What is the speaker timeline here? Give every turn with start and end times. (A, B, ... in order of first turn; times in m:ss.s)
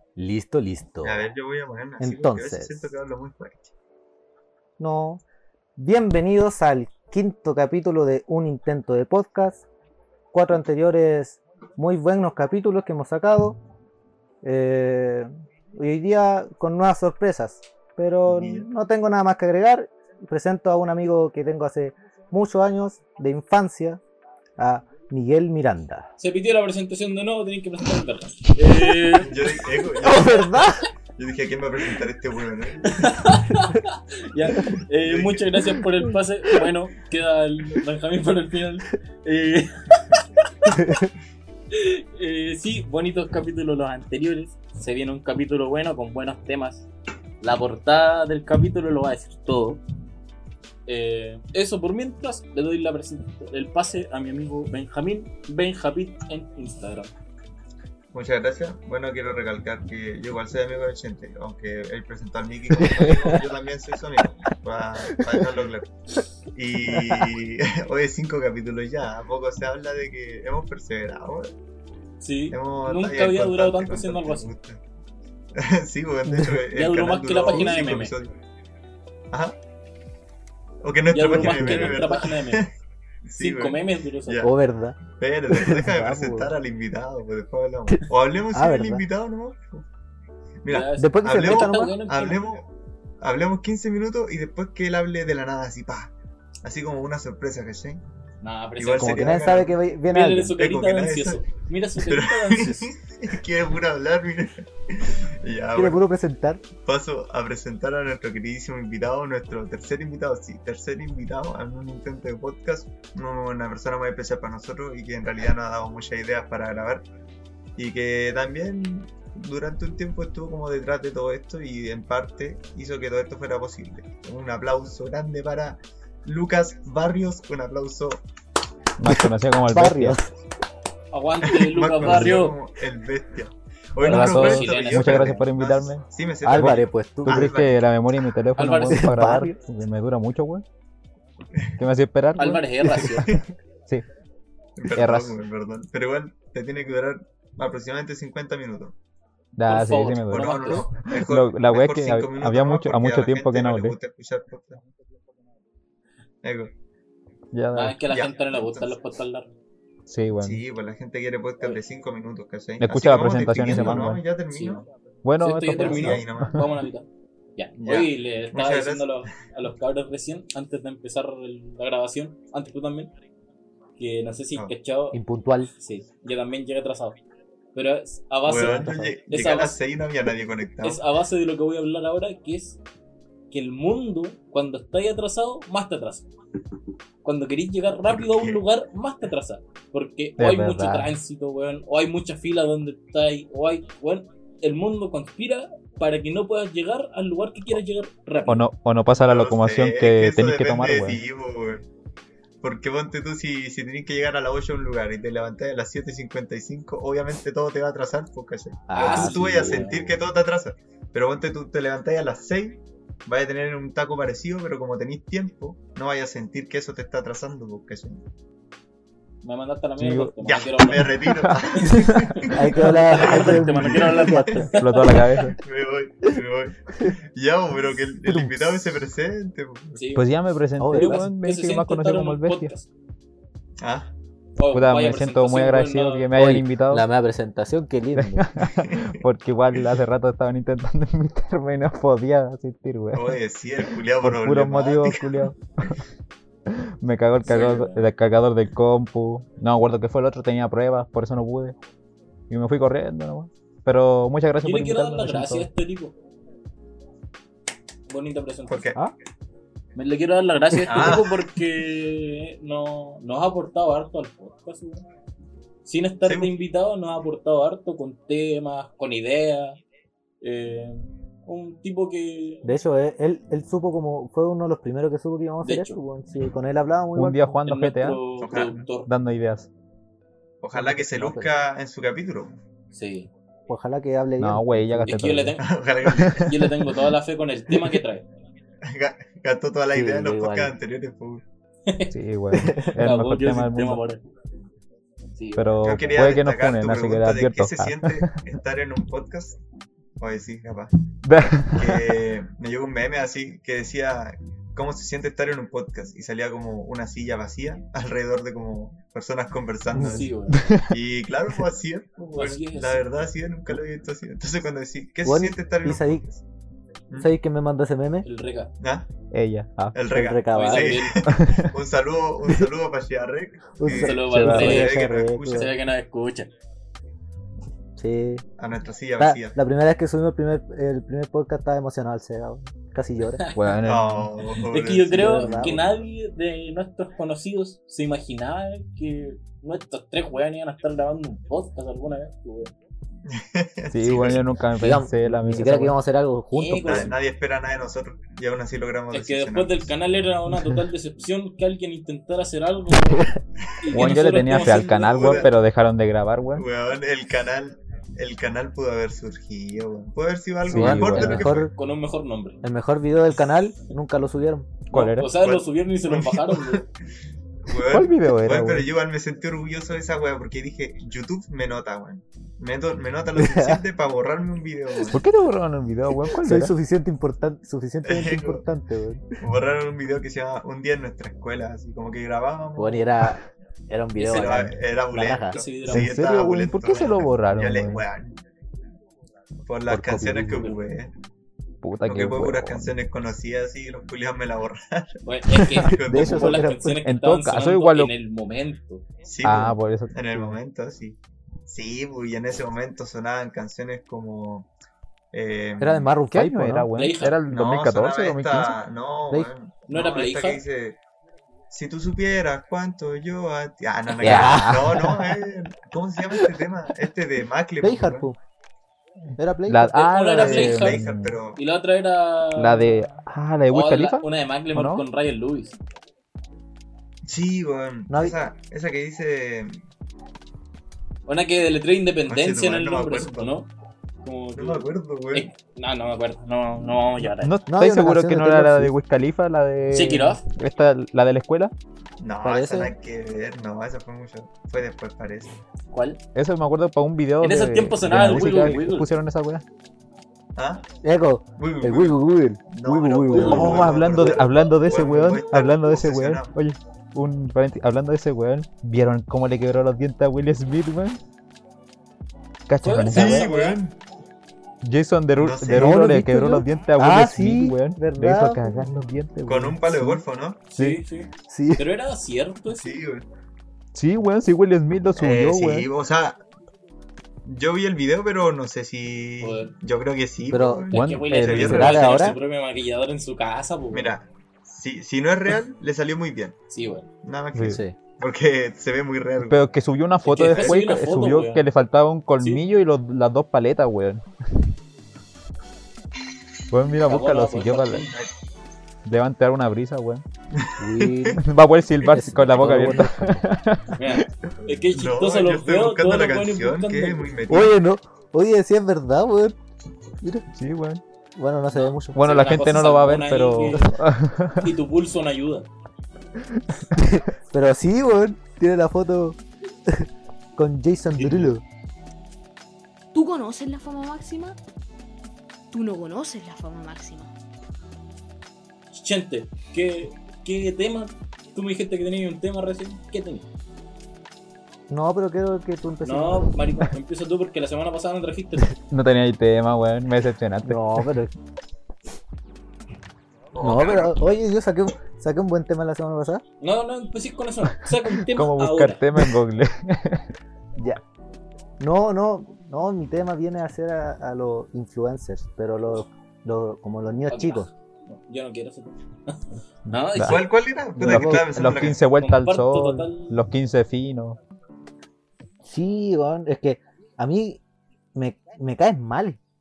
0:00.2-0:01.2 A
0:01.0-0:03.7 B
0:02.0-0:02.9 A
0:04.8-0:05.2 A
0:05.8-0:09.6 A
0:10.3-0:13.6 A
0:14.4-0:24.0 A
0:18.2-0:18.7 B
0:24.6-0:26.1 A
0:26.2-0:29.4 C
0:29.2-0:33.3 B
0:30.0-0:30.9 A
0:32.8-0:40.5 C
0:35.0-0:35.5 B
0:40.7-0:41.1 A
0:41.7-0:46.9 C
0:47.4-0:49.8 C
0:50.9-0:57.1 C
0:58.1-1:05.9 B
1:02.8-1:03.4 A
1:06.5-1:11.5 B
1:06.9-1:07.3 A
1:12.2-1:14.5 C
1:12.5-1:14.8 B
1:15.6-1:18.3 B
1:16.3-1:16.6 A
1:16.7-1:18.1 C
1:17.5-1:17.8 A
1:19.3-1:19.6 B
1:20.8-1:22.7 B
1:21.1-1:22.7 C
1:21.4-1:21.8 A
1:23.2-1:24.5 B
1:23.4-1:24.4 C
1:24.4-1:26.5 A
1:25.1-1:29.8 B
1:28.5-1:29.0 A
1:30.6-1:32.7 B
1:30.7-1:32.4 C
1:31.0-1:32.0 A
1:33.2-1:36.1 B
1:36.6-1:38.0 B
1:38.4-1:39.3 C
1:38.8-1:39.8 B
1:39.0-1:40.6 A
1:40.1-1:42.9 C
1:40.6-1:41.4 B
1:42.0-1:46.0 B
1:45.8-1:46.6 A
1:46.8-1:57.0 B
1:57.8-2:08.2 B
2:09.0-2:10.2 D
2:09.7-2:10.3 A
2:11.1-2:12.6 C
2:11.4-2:17.8 B
2:14.0-2:15.4 C
2:14.0-2:20.6 D
2:16.4-2:17.5 A
2:18.6-2:19.1 C
2:18.9-2:19.6 A
2:21.8-2:24.0 D
2:22.4-2:23.3 C
2:23.0-2:23.4 B
2:24.8-2:29.0 B
2:24.9-2:25.4 D
2:29.6-2:34.0 D
2:29.7-2:30.9 C
2:30.3-2:34.8 B
2:36.4-2:36.7 B
2:37.5-2:38.0 D
2:37.8-2:39.5 C
2:38.1-2:38.9 B
2:40.1-2:40.6 D
2:40.4-2:44.8 B
2:42.8-2:44.2 D
2:44.5-2:44.8 C
2:45.2-2:46.7 D
2:45.4-2:53.1 C
2:45.8-2:46.7 B
2:47.8-2:49.2 B
2:54.0-2:55.2 C
2:55.1-2:55.7 A
2:55.8-2:57.2 C
2:57.8-2:59.8 C
2:58.5-3:01.0 B
3:00.8-3:02.8 C
3:03.5-3:06.3 C
3:07.2-3:18.6 C
3:08.1-3:08.6 B
3:10.4-3:11.2 D
3:18.5-3:21.2 D
3:19.2-3:21.9 B
3:22.6-3:38.2 B
3:28.9-3:29.9 A
3:28.9-3:30.2 C
3:39.4-3:41.1 C
3:40.0-3:42.3 D
3:40.4-3:44.7 B
3:41.8-3:45.5 C
3:42.5-3:44.7 A
3:44.7-3:45.6 D
3:45.6-3:50.0 B
3:48.3-3:48.8 D
3:50.0-3:50.3 C
3:50.2-3:52.7 D
3:50.8-3:51.1 A
3:50.9-3:52.9 C
3:53.8-3:54.1 B
3:54.6-3:56.3 C
3:54.7-3:57.1 D
3:56.3-3:58.5 A
3:58.2-4:06.0 D
3:58.6-3:59.2 B
4:03.1-4:05.5 B
4:06.7-4:11.8 D
4:07.5-4:08.0 C
4:07.5-4:07.8 B
4:12.5-4:15.7 D
4:14.6-4:16.1 C
4:18.1-4:18.9 C
4:18.7-4:19.0 B
4:20.0-4:25.0 C
4:20.8-4:21.5 B
4:25.8-4:29.8 C
4:26.2-4:26.5 B
4:30.4-4:32.7 C
4:32.6-4:37.6 A
4:35.6-4:36.0 C
4:37.1-4:38.2 D
4:37.6-4:39.1 C
4:38.4-4:38.8 B
4:39.1-4:39.7 D
4:40.6-4:42.6 B
4:40.7-4:41.5 A
4:42.9-4:43.3 C
4:43.7-4:45.3 A
4:44.4-4:46.6 D
4:45.1-4:45.6 C
4:45.6-4:46.5 B
4:46.4-4:48.2 C
4:48.8-4:51.4 B
4:49.9-4:50.7 A
4:51.9-4:52.2 C
4:52.1-4:54.0 D
4:52.5-4:52.9 A
4:53.0-4:54.2 C
4:55.4-4:55.6 C
4:55.6-4:58.3 D
4:55.8-4:59.6 B
5:00.2-5:00.9 B
5:01.2-5:02.2 D
5:01.7-5:16.4 B
5:09.9-5:10.3 A
5:10.0-5:10.6 C
5:10.5-5:11.0 D
5:12.3-5:13.1 C
5:15.2-5:16.2 A
5:17.2-5:18.2 A
5:18.2-5:18.7 C
5:18.8-5:19.1 B
5:19.3-5:19.9 D
5:19.9-5:25.7 B
5:20.1-5:21.0 A
5:20.5-5:21.2 C
5:21.3-5:21.7 D
5:23.8-5:25.7 A
5:23.9-5:26.5 C
5:24.2-5:24.8 D
5:28.0-5:28.4 A
5:28.6-5:29.6 B
5:29.2-5:33.4 A
5:33.4-5:33.8 C
5:33.5-5:34.3 D
5:33.8-5:35.8 B
5:34.6-5:42.7 C
5:35.1-5:35.8 A
5:43.3-5:44.5 B
5:43.9-5:46.0 D
5:44.8-5:47.2 A
5:46.5-5:47.1 C
5:46.8-5:49.9 B
5:49.1-5:53.3 C
5:53.8-5:55.4 C
5:53.9-5:56.6 D
5:54.0-5:55.5 B
5:56.6-6:01.7 B
6:00.6-6:01.7 D
6:00.7-6:01.7 A
6:01.7-6:02.6 C
6:02.6-6:04.7 A
6:04.9-6:05.3 D
6:04.9-6:06.8 C
6:05.2-6:06.9 B
6:07.6-6:15.2 B
6:07.9-6:08.9 D
6:13.4-6:13.8 A
6:15.1-6:16.8 D
6:16.3-6:19.4 A
6:18.0-6:18.6 B
6:19.4-6:23.1 B
6:22.8-6:25.6 A
6:24.2-6:28.4 B
6:25.5-6:26.2 C
6:25.9-6:28.0 D
6:29.7-6:31.1 B
6:29.9-6:30.7 A
6:31.8-6:32.9 D
6:32.0-6:36.7 B
6:35.2-6:39.0 C
6:36.0-6:37.0 A
6:37.0-6:38.1 D
6:39.2-6:44.7 B
6:39.4-6:40.6 D
6:45.3-6:46.1 B
6:45.8-6:46.9 A
6:46.3-6:48.8 D
6:46.9-6:47.4 C
6:47.5-6:51.0 B
6:49.9-6:50.6 C
6:51.7-6:58.3 B
6:54.2-6:55.2 A
6:54.2-6:55.3 D
6:57.8-6:58.4 A
6:59.4-6:59.9 A
6:59.6-7:01.4 D
6:59.9-7:01.0 C
7:00.3-7:01.6 B
7:01.6-7:02.9 C
7:02.6-7:05.0 D
7:03.7-7:05.8 C
7:07.2-7:09.8 B
7:08.1-7:08.3 A
7:11.3-7:13.7 C
7:12.3-7:13.6 B
7:14.2-7:17.5 C
7:14.5-7:15.5 B
7:17.2-7:21.7 D
7:17.7-7:18.9 A
7:19.9-7:20.4 C
7:22.2-7:25.6 B
7:22.4-7:22.9 A
7:25.9-7:26.2 C
7:26.3-7:29.6 D
7:27.4-7:29.1 C
7:30.6-7:30.8 B
7:31.0-7:34.4 A
7:31.6-7:32.2 B
7:32.7-7:36.5 B
7:33.3-7:33.8 C
7:33.4-7:41.2 D
7:42.7-7:43.5 D
7:42.8-7:43.8 C
7:43.1-7:43.9 B
7:44.8-7:49.9 D
7:45.4-7:46.0 B
7:45.7-7:48.9 A
7:49.5-7:50.6 B
7:49.9-7:50.2 A
7:50.7-7:53.0 C
7:51.5-7:51.8 A
7:52.7-7:53.3 B
7:53.9-7:55.9 D
7:55.2-7:56.4 B
7:57.4-8:02.4 B
7:59.4-7:59.7 C
8:00.5-8:00.8 A
8:00.9-8:04.1 C
8:00.9-8:02.1 D
8:01.5-8:02.4 A
8:03.9-8:06.5 B
8:06.7-8:07.1 C
8:07.2-8:09.6 B
8:07.5-8:07.8 D
8:07.6-8:07.9 A
8:09.4-8:14.2 D
8:10.2-8:11.6 C
8:10.5-8:10.7 B
8:16.7-8:18.1 D
8:17.0-8:18.1 C
8:19.0-8:20.2 D
8:20.5-8:21.4 B
8:20.8-8:21.4 A
8:21.4-8:24.0 D
8:22.0-8:23.4 A
8:24.0-8:27.2 C
8:24.9-8:27.8 B
8:27.5-8:29.6 A
8:30.5-8:31.0 D
8:31.4-8:32.2 A
8:32.1-8:34.7 D
8:32.2-8:34.0 C
8:34.6-8:35.7 C
8:36.9-8:40.0 A
8:40.6-8:41.6 A
8:41.2-8:41.5 C
8:43.1-8:44.6 E
8:45.7-8:47.3 E
8:48.9-8:53.4 C
8:54.9-8:56.5 A
8:56.0-8:58.8 C
8:58.9-9:01.1 D
9:00.6-9:01.3 A
9:03.5-9:04.2 B
9:03.6-9:06.4 A
9:06.6-9:09.0 C
9:07.8-9:10.3 D
9:11.8-9:17.7 A
9:17.3-9:20.5 C
9:19.9-9:20.4 D
9:20.2-9:22.0 B
9:21.0-9:21.5 A
9:21.0-9:24.4 D
9:22.2-9:23.4 C
9:25.6-9:27.6 A
9:28.1-9:29.4 A